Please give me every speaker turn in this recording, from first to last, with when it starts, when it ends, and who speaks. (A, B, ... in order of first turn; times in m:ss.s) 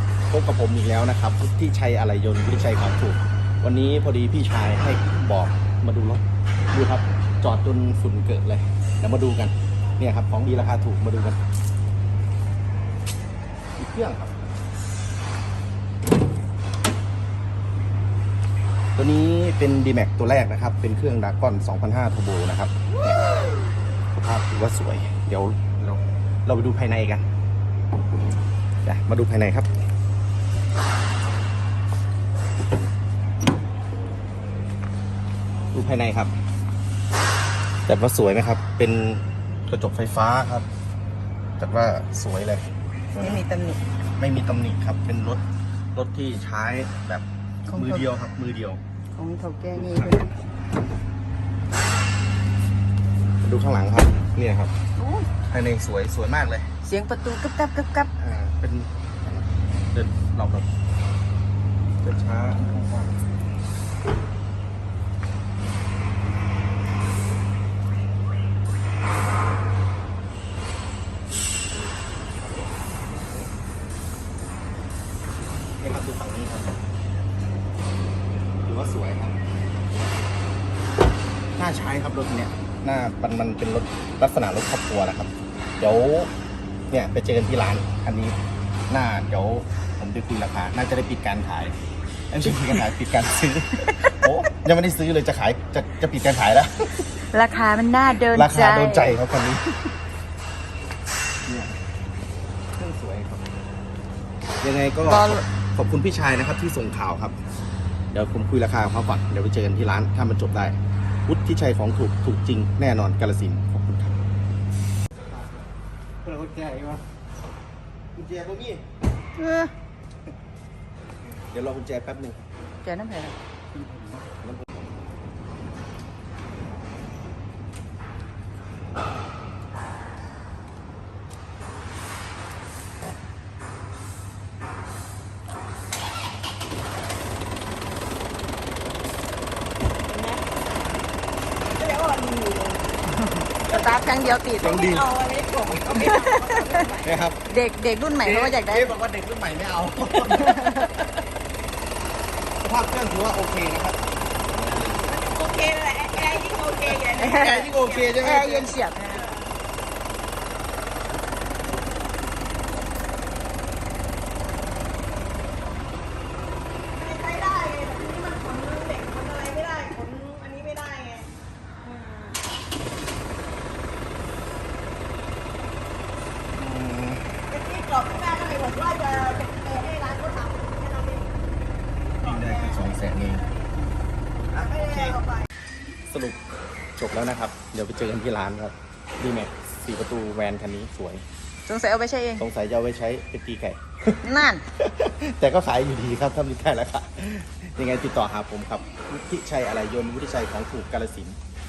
0:00.3-0:11.4 A
0:13.8-0:14.4 A
0:19.0-0:23.2 A
0:24.1-0:27.2 A
0:28.8-0:29.7 A
0:35.7-0:36.3 A
0:37.9-0:40.7 A
0:41.6-0:43.4 A
0:43.2-0:43.8 B
0:44.2-0:45.4 A
0:45.9-0:48.8 A
0:47.6-0:48.0 B
0:49.2-0:50.3 B
0:49.7-0:50.2 A
0:53.4-0:54.7 A
0:55.0-0:55.3 B
0:55.4-0:56.7 A
0:56.8-0:58.1 B
0:58.2-1:00.7 A
1:02.0-1:03.1 A
1:15.8-1:16.7 A
1:18.6-1:19.4 A
1:21.6-1:26.3 A
1:26.9-1:28.4 A
1:28.9-1:31.8 A
1:32.3-1:37.0 A
1:34.0-1:34.3 B
1:37.2-1:39.2 B
1:38.3-1:39.8 A
1:41.4-1:41.8 A
1:42.8-1:43.4 A
1:44.6-1:47.4 A
1:45.0-1:45.4 B
1:48.1-1:54.1 A
1:56.2-1:57.0 A
1:58.1-1:58.8 A
1:59.4-1:59.7 B
2:01.5-2:02.4 A
2:02.8-2:03.4 B
2:04.2-2:04.6 A
2:20.1-2:20.4 C
2:21.8-2:22.9 C
2:23.6-2:25.0 B
2:24.6-2:27.2 C
2:24.7-2:25.0 A
2:25.6-2:26.1 A
2:25.9-2:28.9 B
2:27.0-2:27.4 A
2:28.2-2:31.0 A
2:30.2-2:30.9 B
2:32.6-2:35.2 A
2:35.0-2:38.3 C
2:36.8-2:38.7 A
2:37.1-2:37.7 B
2:38.2-2:39.2 B
2:39.1-2:39.5 C
2:47.0-2:51.3 C
2:51.8-2:52.4 C
2:56.5-2:57.2 A
2:57.5-3:01.3 C
3:02.2-3:03.4 A
3:02.2-3:03.7 C
3:04.5-3:05.2 A
3:04.5-3:05.4 C
3:06.1-3:06.4 A
3:07.0-3:11.2 A
3:11.7-3:12.4 B
3:12.4-3:21.4 A
3:14.2-3:14.6 B